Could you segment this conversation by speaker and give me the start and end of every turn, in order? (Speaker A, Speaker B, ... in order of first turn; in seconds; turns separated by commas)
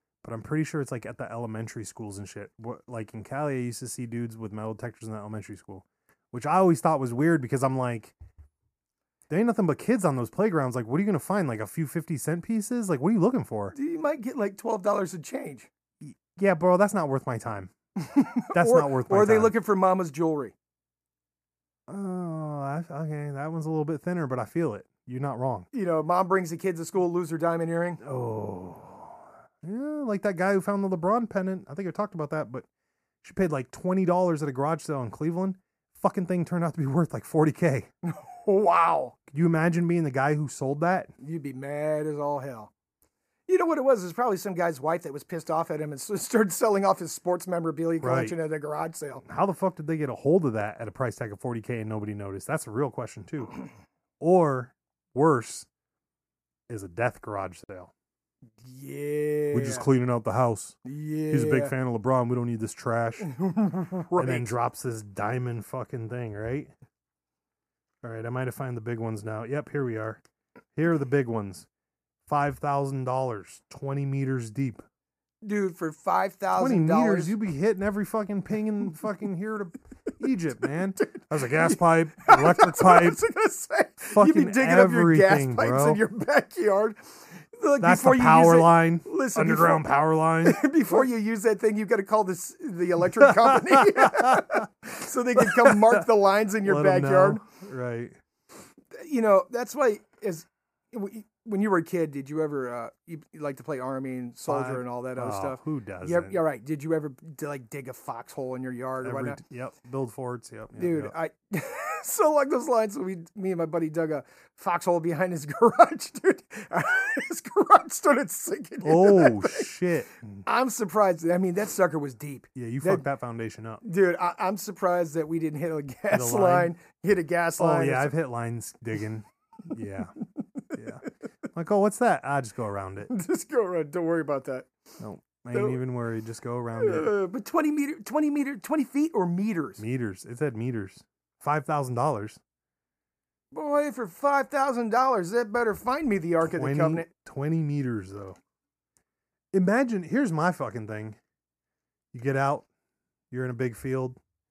Speaker A: 0.2-8.1, Speaker A: 9.3-13.7, Speaker B: 13.7-15.7, Speaker A: 16.0-17.7, Speaker B: 17.9-20.5, Speaker A: 18.5-19.5, Speaker A: 21.9-25.7, Speaker B: 25.7-28.0, Speaker A: 28.0-32.6, Speaker A: 33.2-37.9, Speaker B: 38.0-39.1, Speaker A: 39.3-41.1, Speaker B: 41.2-42.7, Speaker B: 43.5-49.2, Speaker A: 48.0-48.4, Speaker A: 49.2-53.5, Speaker A: 54.2-55.7, Speaker A: 56.7-57.9, Speaker B: 58.6-59.9, Speaker A: 59.5-60.8, Speaker B: 60.8-61.7, Speaker A: 61.3-63.3, Speaker B: 63.2-64.5, Speaker A: 64.2-66.7, Speaker A: 68.0-70.2, Speaker A: 70.8-71.7, Speaker A: 72.3-74.8, Speaker B: 75.4-77.3, Speaker A: 76.6-83.2, Speaker B: 81.0-87.0, Speaker A: 84.1-86.0, Speaker B: 87.5-89.8, Speaker A: 87.8-91.0, Speaker B: 90.4-97.4, Speaker A: 93.2-94.7, Speaker A: 95.4-96.0, Speaker A: 96.6-98.2, Speaker B: 98.9-109.4, Speaker A: 104.5-106.4, Speaker A: 109.0-111.1, Speaker B: 110.8-119.7, Speaker A: 118.8-120.4, Speaker B: 120.5-123.0, Speaker A: 122.5-123.8, Speaker B: 123.8-128.1, Speaker A: 126.1-126.7, Speaker A: 127.6-130.1, Speaker A: 130.7-133.1, Speaker B: 133.1-134.7, Speaker A: 135.0-137.1, Speaker B: 135.5-135.8, Speaker B: 136.8-139.8, Speaker A: 139.8-142.4, Speaker B: 143.5-147.1, Speaker A: 146.4-148.4, Speaker A: 149.5-151.2, Speaker A: 152.1-152.7, Speaker A: 153.3-154.2